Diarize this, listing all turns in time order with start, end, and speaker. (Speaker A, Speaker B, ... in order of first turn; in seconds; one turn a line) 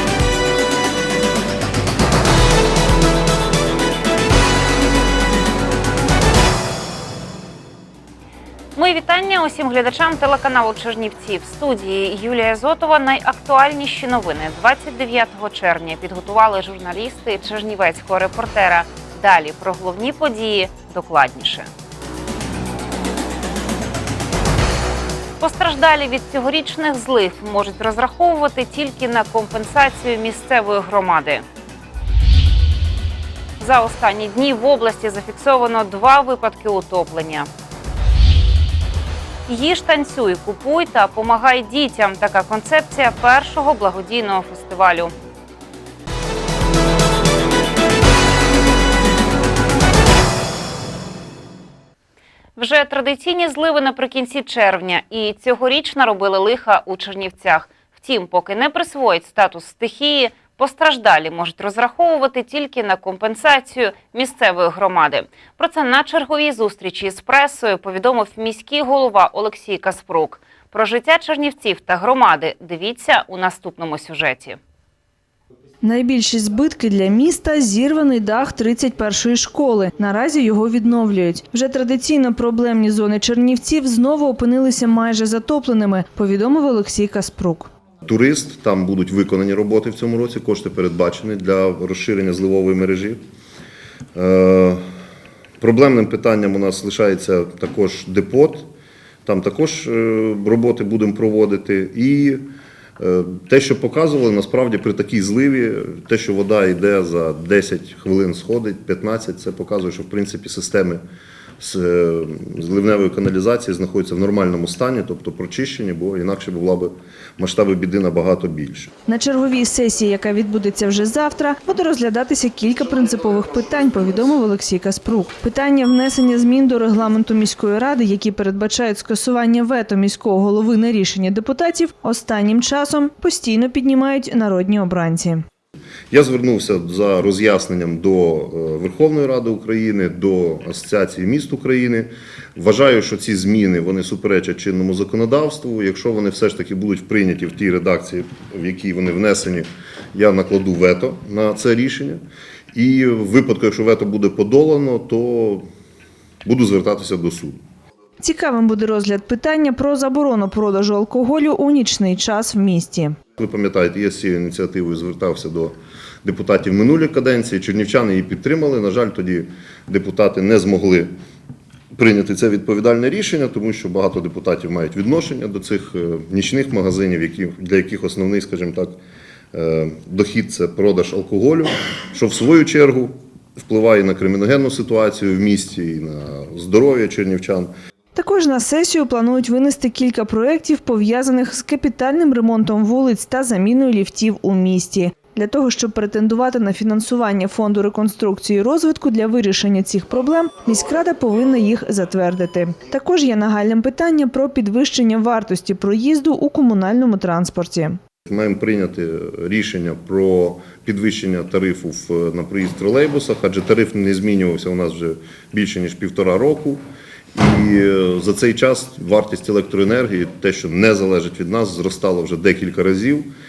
Speaker A: 8.8-21.7
Speaker A: 25.4-31.4
Speaker A: 33.6-37.5
Speaker A: 39.5-45.1
Speaker A: 52.5-74.6
Speaker B: 75.8-87.7
Speaker C: 88.0-93.2
Speaker C: 94.1-94.8
Speaker C: 95.6-98.7
Speaker C: 99.2-111.0
Speaker C: 111.6-118.9
Speaker B: 119.1-135.4
Speaker C: 136.1-152.2
Speaker C: 152.7-155.7
Speaker C: 156.4-157.6
Speaker B: 158.2-163.2
Speaker C: 163.4-171.1
Speaker C: 171.9-179.0
Speaker C: 179.5-187.7
Speaker B: 188.1-208.0
Speaker C: 208.2-216.8
Speaker C: 217.3-223.3